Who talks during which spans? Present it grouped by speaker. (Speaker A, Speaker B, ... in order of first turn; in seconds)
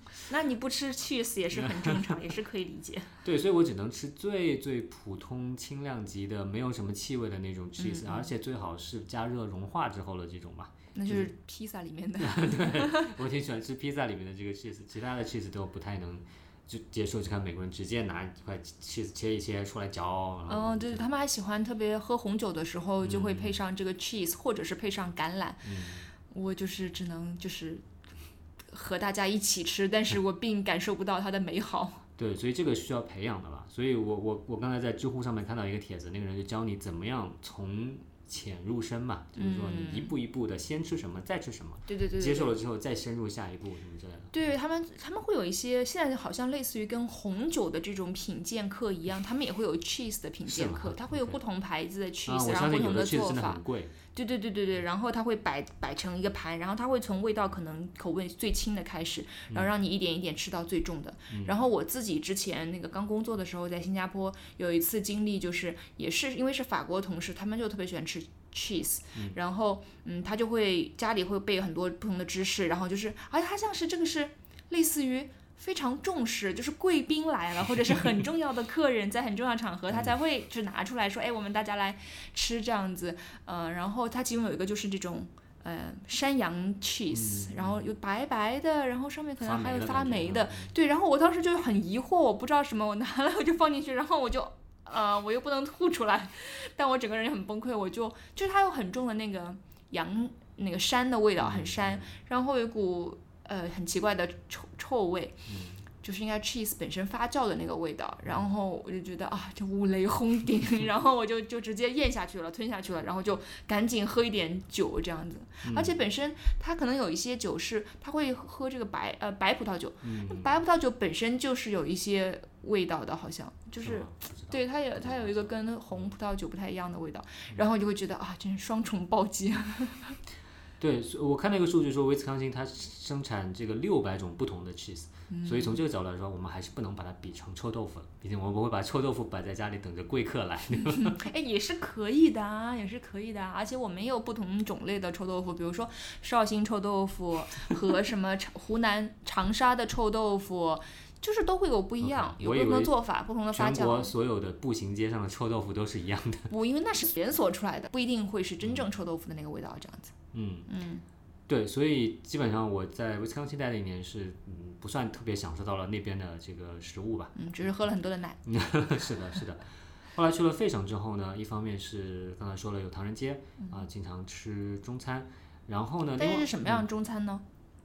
Speaker A: 0.3-3.1, 7.8-8.3, 10.9-13.2, 20.5-25.7, 26.3-27.8, 28.7-32.0, 39.4-40.1, 41.9-42.5, 44.3-53.6, 54.1-105.5, 106.0-130.2, 135.3-135.8, 140.9-154.1, 156.5-160.2, 160.7-161.0, 167.4-168.4, 173.6-173.8, 176.2-177.4
Speaker B: 1.5-2.2, 3.2-11.3, 12.2-21.0, 23.0-23.6, 25.6-26.1, 32.2-44.4, 50.5-51.4, 52.3-53.9, 87.1-87.9, 89.4-90.7, 101.4-102.1, 105.5-105.8, 115.6-116.0, 120.0-120.6, 123.8-126.1, 130.8-141.2, 152.0-152.9, 153.5-156.5, 160.3-160.7, 161.5-167.4, 168.4-176.8